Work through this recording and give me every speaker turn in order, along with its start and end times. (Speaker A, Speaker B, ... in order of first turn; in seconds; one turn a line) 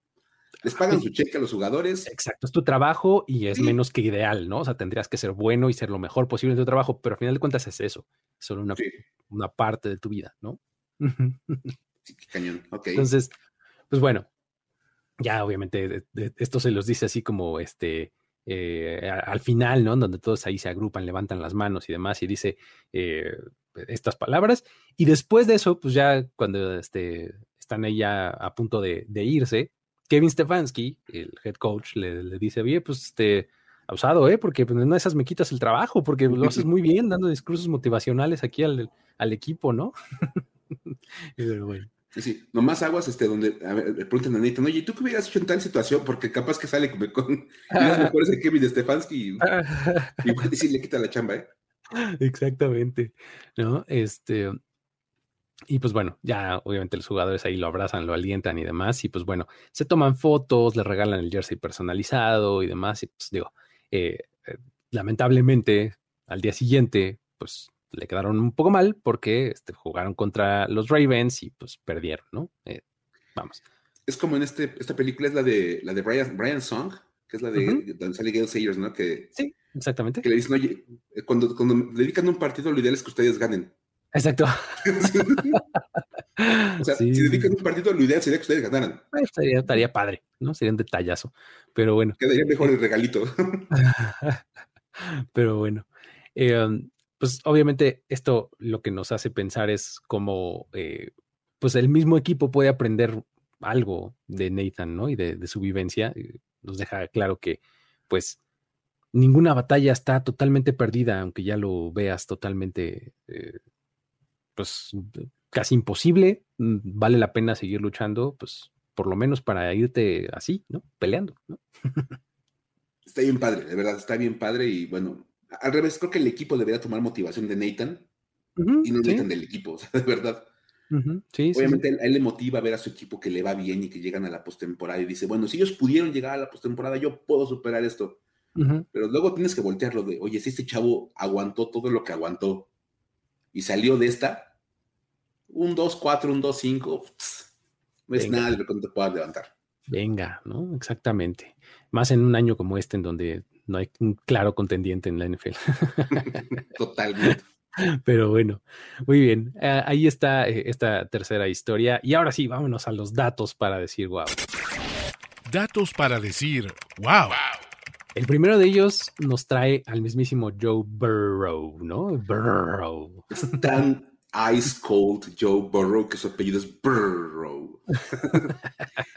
Speaker A: 0.6-2.1
Speaker B: 0.7-1.1
Speaker B: 2.1-11.7
Speaker A: 3.5-3.8
Speaker A: 12.1-13.1
Speaker B: 12.9-13.3
Speaker B: 13.9-14.3
Speaker B: 15.2-41.9
Speaker A: 36.3-36.7
Speaker A: 42.1-49.6
Speaker B: 47.7-48.1
Speaker B: 49.4-50.2
Speaker A: 50.2-51.5
Speaker B: 51.9-54.6
Speaker B: 55.7-72.8
Speaker B: 73.4-73.6
Speaker A: 74.1-79.3
Speaker B: 77.6-77.8
Speaker B: 79.4-80.3
Speaker A: 80.2-83.8
Speaker B: 84.2-85.6
Speaker A: 84.8-85.6
Speaker B: 86.4-87.5
Speaker A: 86.8-89.0
Speaker B: 89.1-92.2
Speaker A: 92.2-93.7
Speaker B: 93.7-94.4
Speaker B: 95.0-108.4
Speaker B: 109.1-113.6
Speaker B: 114.6-122.2
Speaker A: 123.1-128.1
Speaker B: 128.6-129.3
Speaker A: 128.8-130.5
Speaker B: 130.9-131.8
Speaker A: 131.5-138.2
Speaker B: 138.6-138.9
Speaker A: 138.9-142.7
Speaker A: 143.5-144.5
Speaker A: 145.5-147.5
Speaker A: 148.1-149.5
Speaker B: 148.2-148.6
Speaker B: 149.9-156.4
Speaker A: 156.2-157.4
Speaker B: 157.3-164.4
Speaker C: 165.5-167.5
Speaker B: 168.2-173.3
Speaker A: 173.3-178.6